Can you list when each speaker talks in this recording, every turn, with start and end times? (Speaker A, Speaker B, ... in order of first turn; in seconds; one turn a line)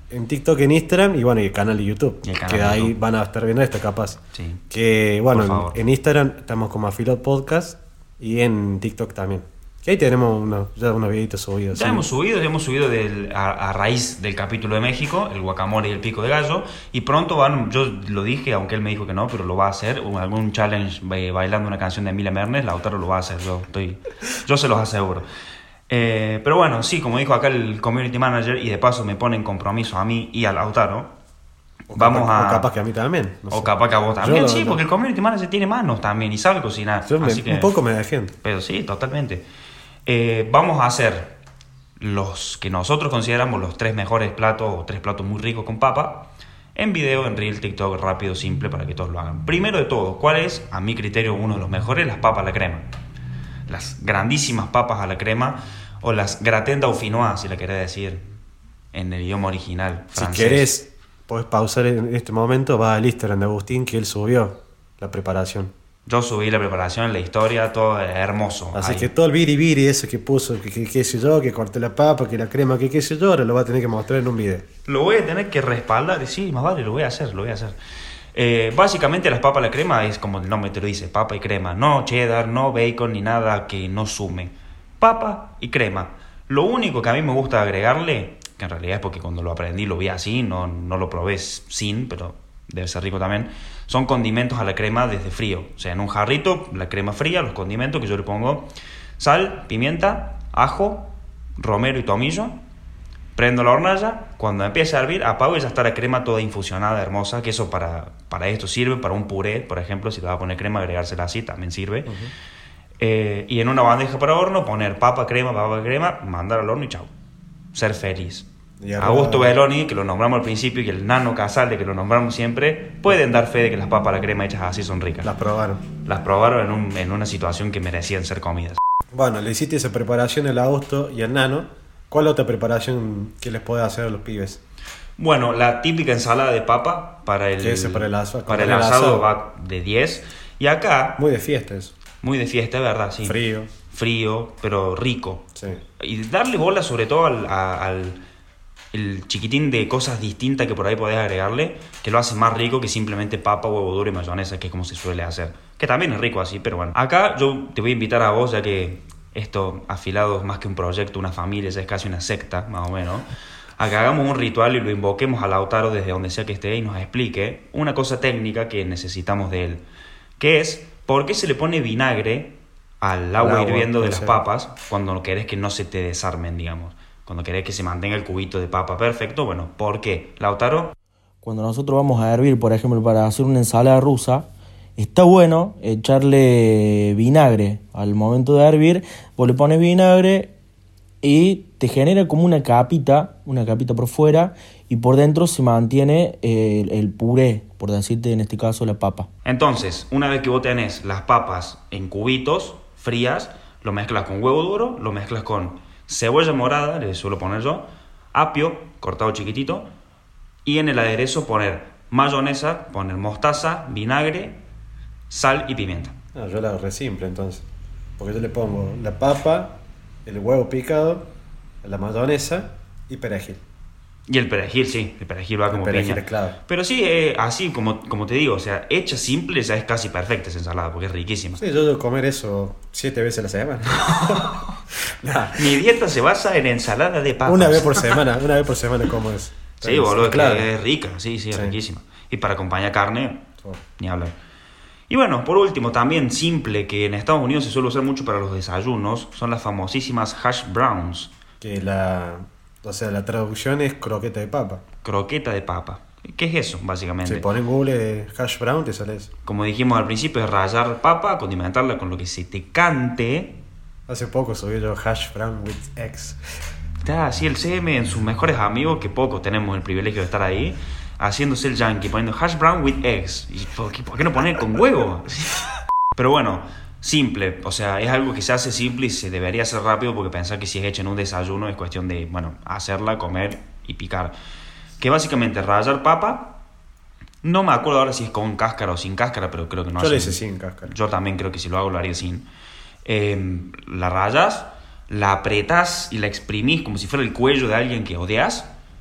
Speaker A: 0.1-4.2
Speaker B: 2.2-2.9
Speaker B: 4.3-4.6
Speaker A: 4.7-12.0
Speaker B: 5.3-5.8
Speaker B: 11.7-25.3
Speaker B: 25.9-31.1
Speaker A: 31.9-34.8
Speaker B: 31.9-32.7
Speaker B: 33.5-37.7
Speaker A: 37.0-38.4
Speaker B: 38.4-39.4
Speaker B: 40.1-41.4
Speaker B: 42.0-52.9
Speaker B: 53.7-58.2
Speaker B: 58.9-60.7
Speaker A: 60.1-65.7
Speaker B: 66.1-69.1
Speaker A: 68.7-74.7
Speaker B: 74.8-77.8
Speaker B: 78.3-102.6
Speaker B: 103.3-112.1
Speaker B: 113.0-117.1
Speaker B: 117.7-118.5
Speaker A: 118.8-119.5
Speaker B: 119.0-125.3
Speaker A: 125.2-125.9
Speaker B: 126.0-128.8
Speaker A: 129.1-134.6
Speaker B: 135.2-141.2
Speaker A: 137.6-139.2
Speaker A: 141.2-141.9
Speaker B: 142.2-148.2
Speaker A: 143.2-143.7
Speaker A: 145.6-145.8
Speaker B: 148.9-163.2
Speaker B: 163.8-169.8
Speaker B: 170.4-180.9
Speaker A: 173.4-174.4
Speaker C: 181.4-190.5
Speaker C: 191.2-199.3
Speaker B: 199.4-209.9
Speaker B: 210.6-214.6
Speaker B: 215.3-216.1
Speaker A: 216.3-217.6
Speaker A: 218.2-221.2
Speaker A: 221.8-223.6
Speaker B: 224.3-231.6
Speaker A: 225.7-226.6
Speaker A: 231.6-235.7
Speaker B: 234.1-234.7
Speaker B: 235.6-238.2
Speaker A: 237.4-240.7
Speaker B: 239.8-243.4
Speaker B: 244.0-244.3
Speaker B: 245.1-251.3
Speaker A: 251.6-254.8
Speaker B: 255.0-257.5
Speaker A: 257.2-259.3
Speaker B: 259.4-263.6
Speaker A: 264.1-266.4
Speaker B: 267.0-284.3
Speaker B: 285.0-286.6
Speaker B: 287.4-292.4
Speaker A: 290.0-290.9
Speaker B: 293.0-298.7